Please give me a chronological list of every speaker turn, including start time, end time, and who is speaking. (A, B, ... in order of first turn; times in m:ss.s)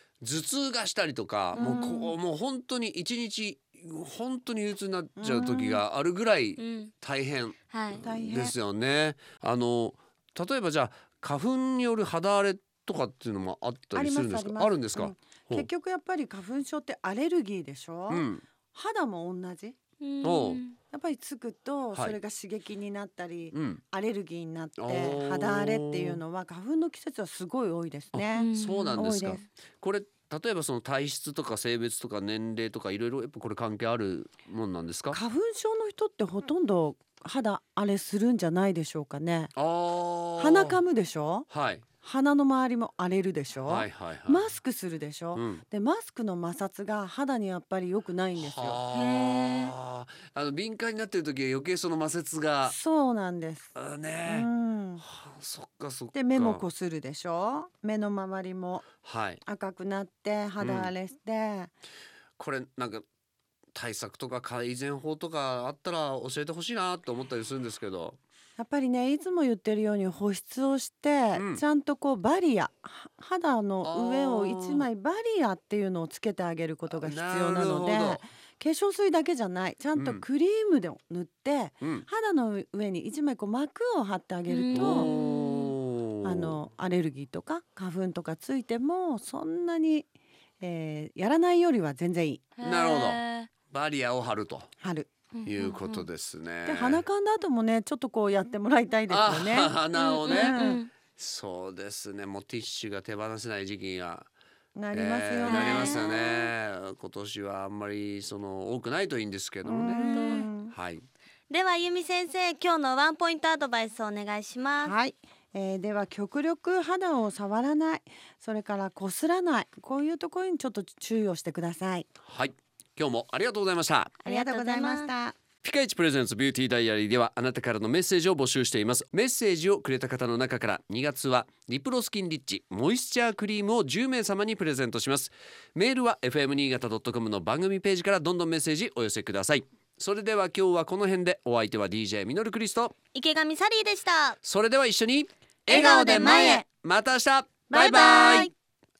0:00.2-0:15.7 A
0:01.5-0:02.1 B
0:01.6-0:01.8 C
0:05.2-0:05.8 B
0:06.6-0:06.9 C
0:07.7-0:08.0 C
0:08.0-0:08.5 B
0:14.0-0:19.8 B
0:18.1-0:18.4 A
0:20.0-0:20.8 C
0:20.2-0:20.6 A
0:20.9-0:29.4 B
0:23.5-0:23.8 A
0:24.8-0:26.2 A
0:28.1-0:35.2 A
0:28.3-0:29.0 C
0:35.1-0:39.5 B
0:39.6-0:40.8 A
0:40.4-0:41.5 B
0:41.5-0:41.8 A
0:42.0-0:48.8 B
0:43.6-0:44.5 A
0:45.3-0:45.6 A
0:48.4-0:52.8 A
0:48.9-0:49.7 C
0:52.6-0:53.7 B
0:53.7-0:56.6 A
0:54.3-0:55.0 B
0:56.1-0:58.8 B
0:59.0-0:59.4 A
0:59.4-1:01.7 B
1:00.6-1:00.9 A
1:02.4-1:03.0 A
1:03.7-1:08.2 A
1:08.6-1:25.1 B
1:11.3-1:11.6 A
1:13.8-1:14.8 A
1:16.9-1:18.2 A
1:19.9-1:20.2 A
1:21.8-1:22.1 A
1:24.5-1:25.8 C
1:24.7-1:26.6 A
1:26.2-1:30.1 B
1:30.6-1:32.5 B
1:32.6-1:33.5 C
1:32.6-1:34.7 A
1:34.8-1:35.1 B
1:35.3-1:36.1 C
1:35.5-1:37.0 A
1:36.7-1:40.8 B
1:39.1-1:44.3 A
1:39.9-1:40.9 C
1:44.8-1:46.2 B
1:44.9-1:51.1 A
1:45.4-1:46.4 C
1:49.6-1:50.7 B
1:50.0-1:50.5 C
1:51.5-1:54.9 C
1:54.8-2:02.1 B
2:02.2-2:04.2 A
2:04.2-2:05.1 C
2:04.2-2:05.4 B
2:05.6-2:22.9 A
2:23.1-2:24.4 C
2:24.4-2:28.5 A
2:25.7-2:26.6 C
2:25.7-2:26.6 B
2:27.7-2:28.5 B
2:27.7-2:28.5 C